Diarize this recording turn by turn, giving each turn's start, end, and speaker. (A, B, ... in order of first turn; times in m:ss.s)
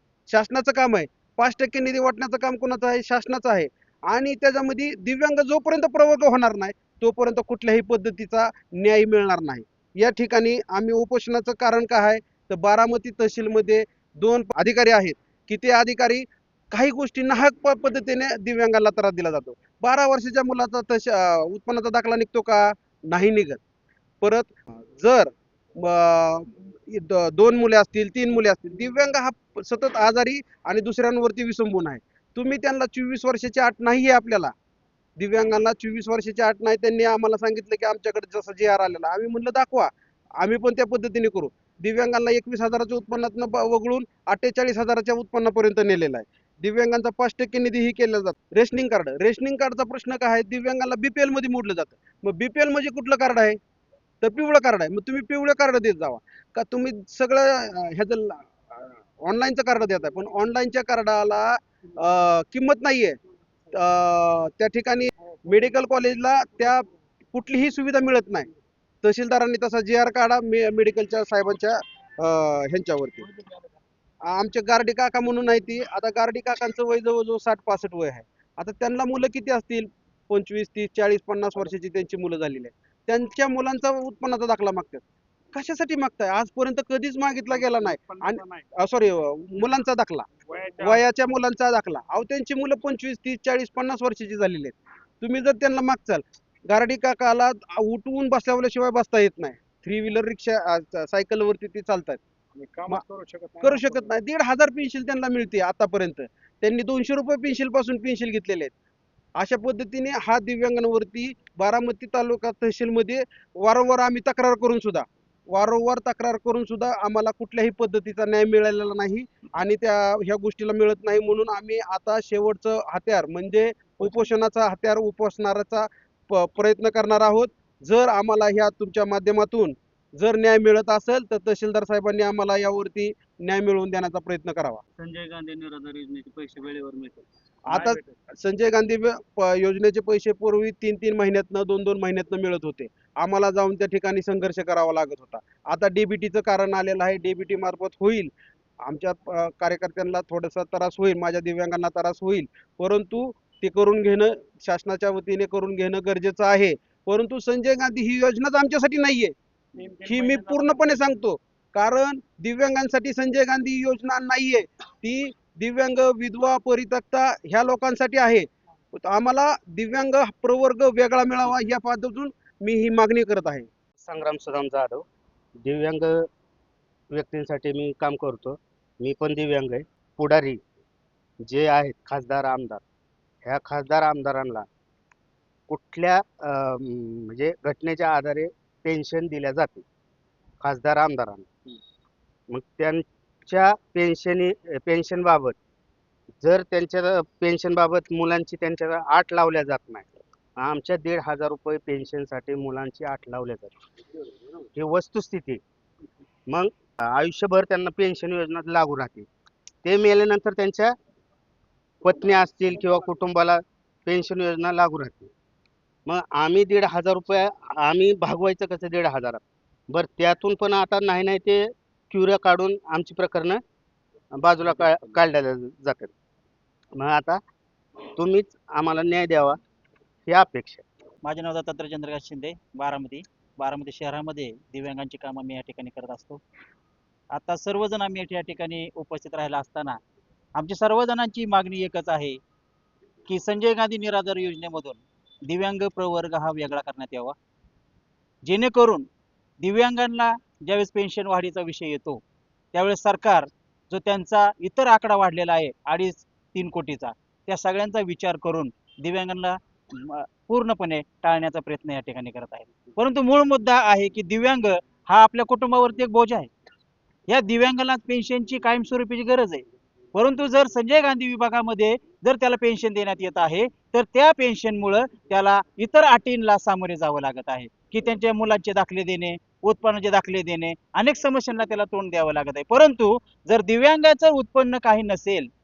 0:00.3-0:23.6 A
0:24.2-0:34.5 A
0:35.2-0:53.6 A
0:54.2-1:03.2 A
1:03.7-1:08.5 A
1:09.0-1:13.3 A
1:14.2-1:25.0 A
1:25.5-1:30.3 A
1:27.6-1:28.7 B
1:30.4-1:31.0 B
1:30.8-1:42.2 A
1:42.6-1:44.0 B
1:43.6-1:48.7 A
1:49.4-2:14.8 A
2:15.0-2:18.1 C
2:17.7-2:39.3 A
2:39.7-2:41.0 B
2:40.0-2:53.7 A
2:54.0-2:55.0 D
2:55.6-2:56.3 D
2:57.1-3:00.6 D
3:01.4-3:02.8 D
3:03.4-3:04.6 D
3:05.7-3:09.8 D
3:10.6-3:11.8 D
3:12.5-3:15.5 D
3:16.4-3:20.1 D
3:20.6-3:23.7 D
3:24.7-3:25.6 D
3:26.5-3:29.3 D
3:29.8-3:30.9 D
3:32.0-3:35.3 D
3:36.1-3:43.6 D
3:44.3-3:46.1 D
3:47.0-3:47.4 D
3:48.2-3:49.6 D
3:50.2-3:50.8 D
3:51.2-3:56.4 E
3:57.3-4:00.0 E
4:00.5-4:02.4 E
4:03.3-4:07.3 E
4:08.4-4:09.1 E
4:09.6-4:12.2 E
4:12.7-4:26.5 E
4:27.3-4:45.5 E